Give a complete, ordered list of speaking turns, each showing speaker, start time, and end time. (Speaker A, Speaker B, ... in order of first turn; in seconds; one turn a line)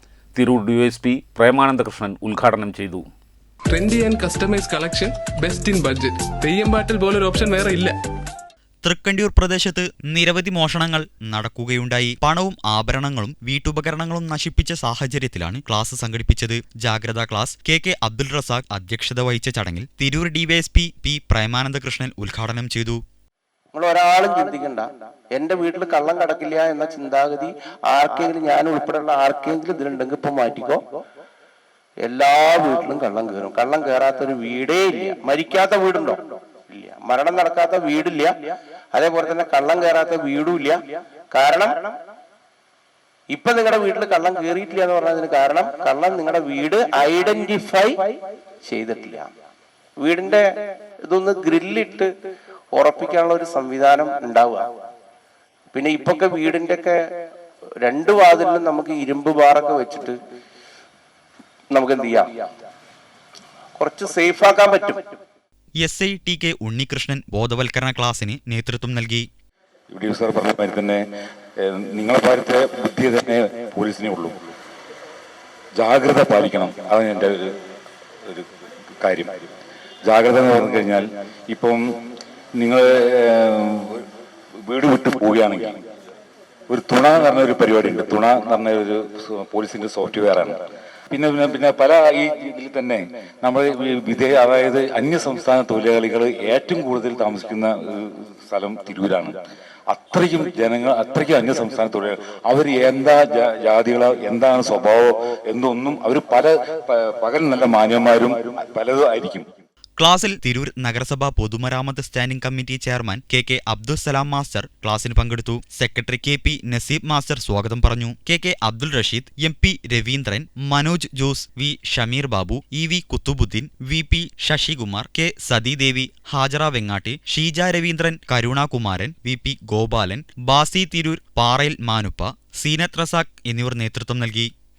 Speaker A: 0.3-3.0
Speaker B: 3.7-8.0
Speaker C: 8.8-23.0
Speaker D: 23.7-30.9
Speaker D: 32.0-38.4
Speaker D: 38.9-40.8
Speaker D: 41.3-41.9
Speaker D: 43.3-49.3
Speaker D: 50.0-50.4
Speaker D: 51.1-52.1
Speaker D: 52.7-54.6
Speaker D: 55.7-57.0
Speaker D: 57.8-60.1
Speaker D: 61.7-62.4
Speaker D: 63.8-65.0
Speaker C: 65.8-69.3
Speaker E: 69.9-71.0
Speaker E: 71.6-74.3
Speaker E: 75.8-77.5
Speaker E: 79.0-79.3
Speaker E: 80.1-81.8
Speaker E: 82.6-84.1
Speaker E: 84.7-85.8
Speaker E: 86.7-90.6
Speaker E: 91.1-99.3
Speaker E: 99.9-109.5
Speaker C: 110.0-134.5